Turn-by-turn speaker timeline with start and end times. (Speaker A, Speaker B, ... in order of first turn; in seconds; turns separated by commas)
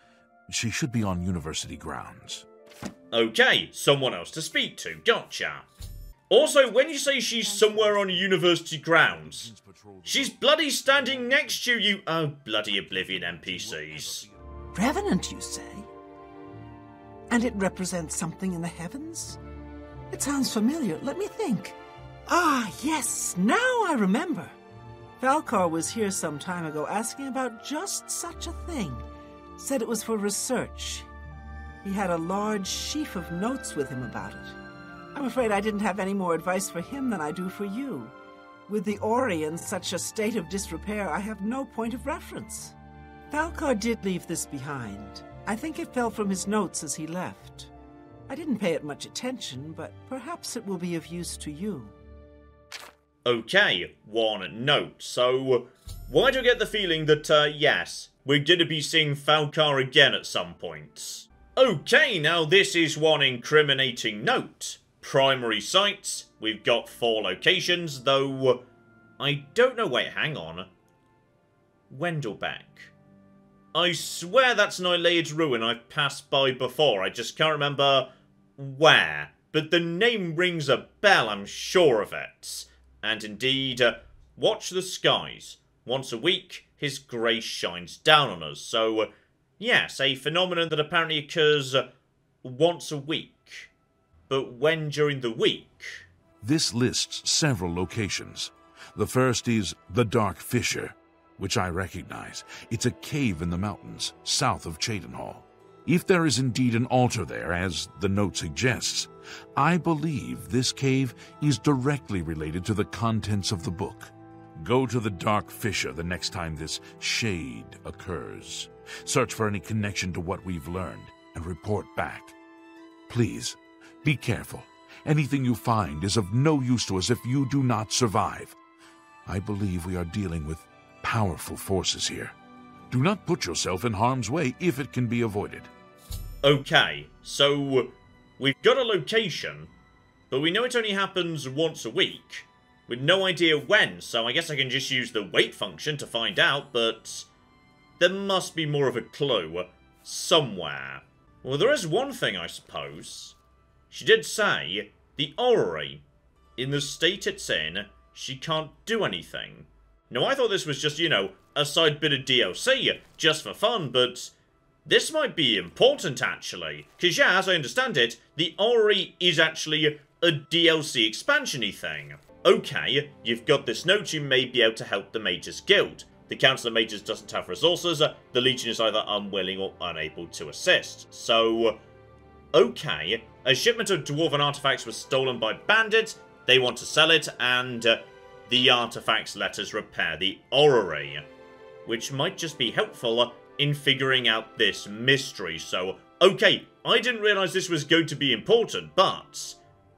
Speaker A: 0.5-2.4, Speaker B: 3.1-5.7, Speaker B: 6.3-9.5, Speaker A: 7.4-8.4, Speaker A: 9.0-11.8, Speaker B: 10.0-14.3, Speaker A: 12.8-14.4, Speaker C: 14.7-15.9, Speaker C: 17.3-19.4, Speaker C: 20.1-24.5, Speaker C: 25.2-29.0, Speaker C: 29.6-31.1, Speaker C: 31.8-34.5, Speaker C: 35.1-38.1, Speaker C: 38.7-42.7, Speaker C: 43.3-47.7, Speaker C: 48.3-51.9, Speaker B: 53.2-68.6, Speaker B: 69.2-70.7, Speaker B: 71.9-72.9, Speaker B: 73.7-91.9, Speaker B: 92.4-93.7, Speaker B: 94.3-96.1, Speaker A: 96.4-122.3, Speaker A: 123.1-128.6, Speaker A: 129.2-132.3, Speaker A: 132.9-135.7, Speaker B: 136.4-139.7, Speaker B: 140.3-147.3, Speaker B: 148.0-153.3, Speaker B: 153.9-156.0, Speaker B: 156.6-164.3, Speaker B: 164.8-181.8, Speaker B: 182.5-191.2, Speaker B: 191.8-199.6